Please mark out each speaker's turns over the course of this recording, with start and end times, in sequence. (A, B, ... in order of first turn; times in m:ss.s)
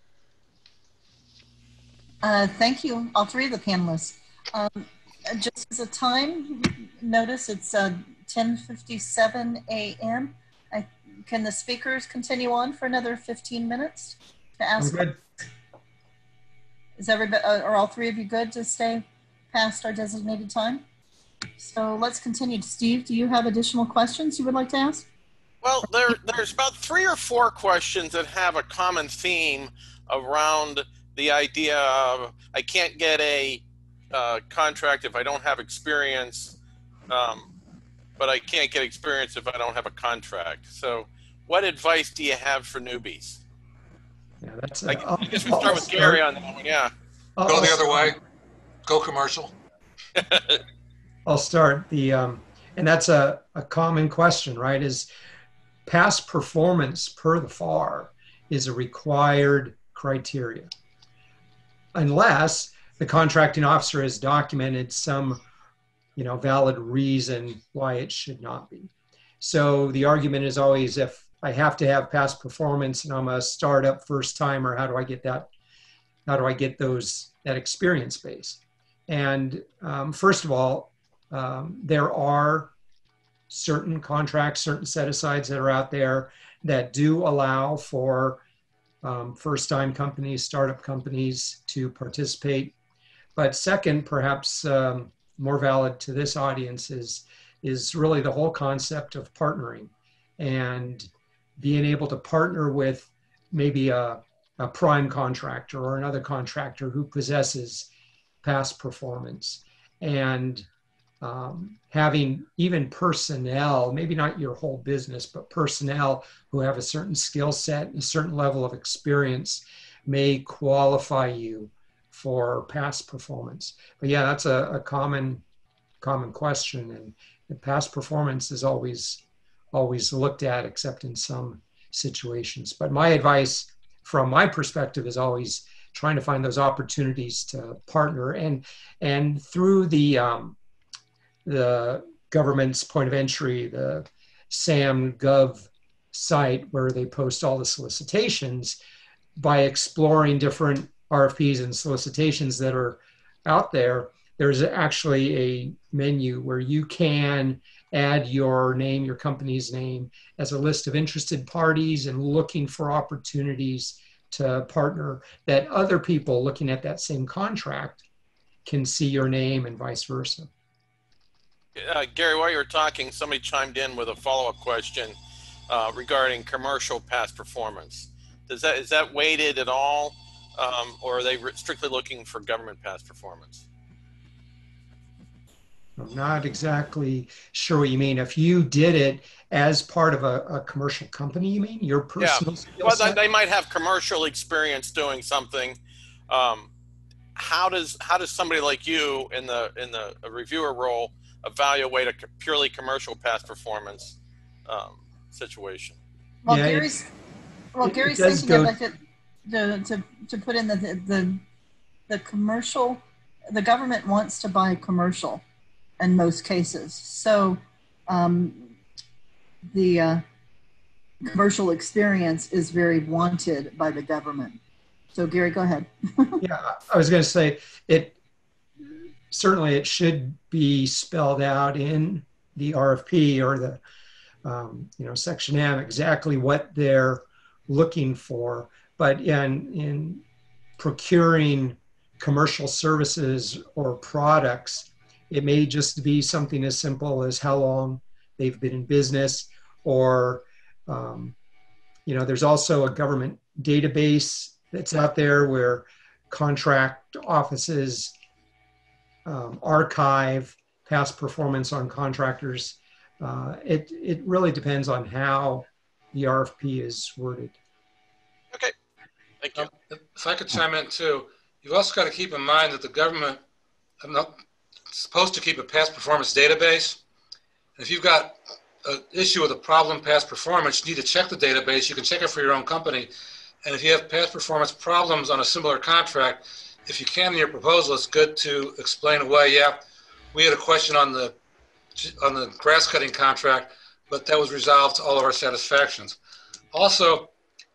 0:02.2-0:15.1 A
0:14.8-0:15.2 B
0:17.0-0:20.8 A
0:21.6-0:25.1 A
0:25.6-0:36.6 C
0:37.1-0:37.5 C
0:38.2-0:43.4 C
0:44.4-0:46.2 B
0:44.9-0:46.9 C
0:47.4-0:48.1 B
0:47.5-0:48.2 D
0:48.9-0:49.5 D
0:50.2-0:50.6 C
0:51.3-0:55.1 B
0:55.9-1:00.7 B
1:02.0-1:05.4 B
1:06.2-1:15.5 B
1:16.3-1:22.7 B
1:23.5-1:28.4 B
1:29.0-1:32.8 B
1:33.4-1:47.9 B
1:48.4-1:50.7 B
1:51.2-2:05.4 B
2:06.0-2:09.2 B
2:09.7-2:20.6 B
2:21.4-2:28.8 B
2:29.4-2:48.0 B
2:48.6-2:50.5 B
2:51.8-2:55.2 C
2:55.7-3:03.6 C
3:06.0-3:13.2 B
3:12.2-3:16.7 C
3:17.4-3:26.0 C
3:26.4-3:27.1 A
3:26.5-3:27.1 B
3:27.7-3:31.4 A
3:27.8-3:28.8 B
3:32.1-3:35.4 A
3:36.0-3:38.8 A
3:39.7-3:40.2 A
3:41.2-3:44.6 A
3:45.1-3:46.4 A
3:46.4-3:48.2 B
3:48.9-3:53.8 B
3:54.4-4:00.2 B
4:00.8-4:11.4 B
4:12.1-4:18.1 B
4:19.2-4:27.6 B
4:29.4-4:29.7 C
4:29.6-4:33.4 D
4:34.0-4:34.4 D
4:34.9-4:37.0 D
4:37.8-4:43.1 D
4:43.6-4:49.8 D
4:50.3-4:51.4 D
4:52.0-4:56.2 D
4:56.7-4:57.3 D